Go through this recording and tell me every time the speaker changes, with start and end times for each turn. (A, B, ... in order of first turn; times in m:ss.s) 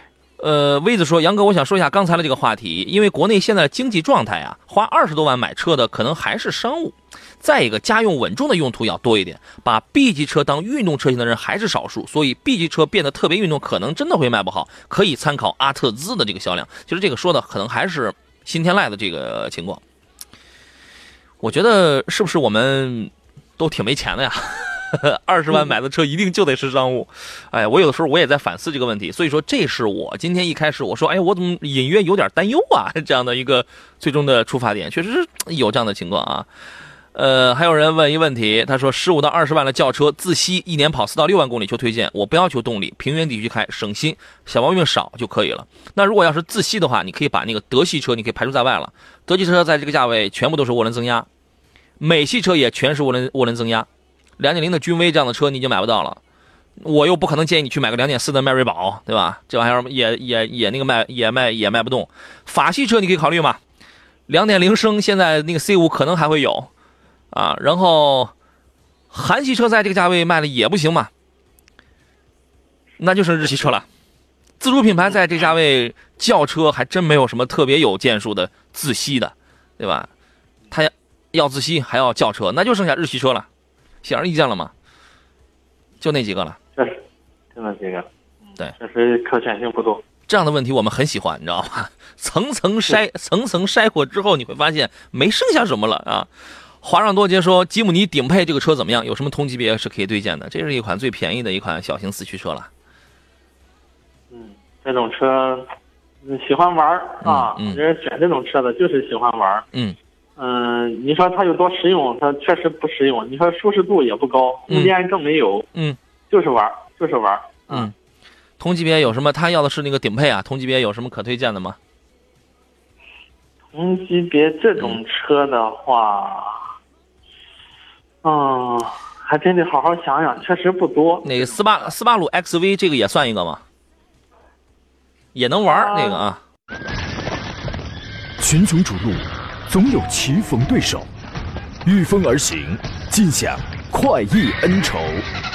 0:00.4-0:19.8 A
0:21.4-0:36.5 A
0:37.1-0:51.3 A
0:52.0-0:53.9 A
0:54.4-0:56.2 A
0:56.8-1:03.6 A
1:04.3-1:06.7 A
1:07.3-1:08.3 A
1:09.1-1:11.1 A
1:13.0-1:13.8 A
1:14.6-1:20.1 A
1:20.7-1:23.5 A
1:24.0-1:24.7 A
1:26.0-1:26.6 A
1:26.8-1:27.0 B
1:27.6-1:28.1 B
1:28.8-1:30.0 B
1:30.3-1:36.3 A
1:36.8-1:42.7 A
1:44.3-1:45.7 B
1:46.2-1:49.7 B
1:47.2-1:47.8 A
1:50.4-1:55.7 B
1:56.3-1:57.9 B
1:58.6-2:01.8 A
2:03.7-2:06.6 B
2:08.2-2:11.5 B
2:11.2-2:13.6 A
2:15.4-2:16.4 A
2:15.8-2:16.2 B
2:18.4-2:21.1 C
2:21.8-2:25.3 C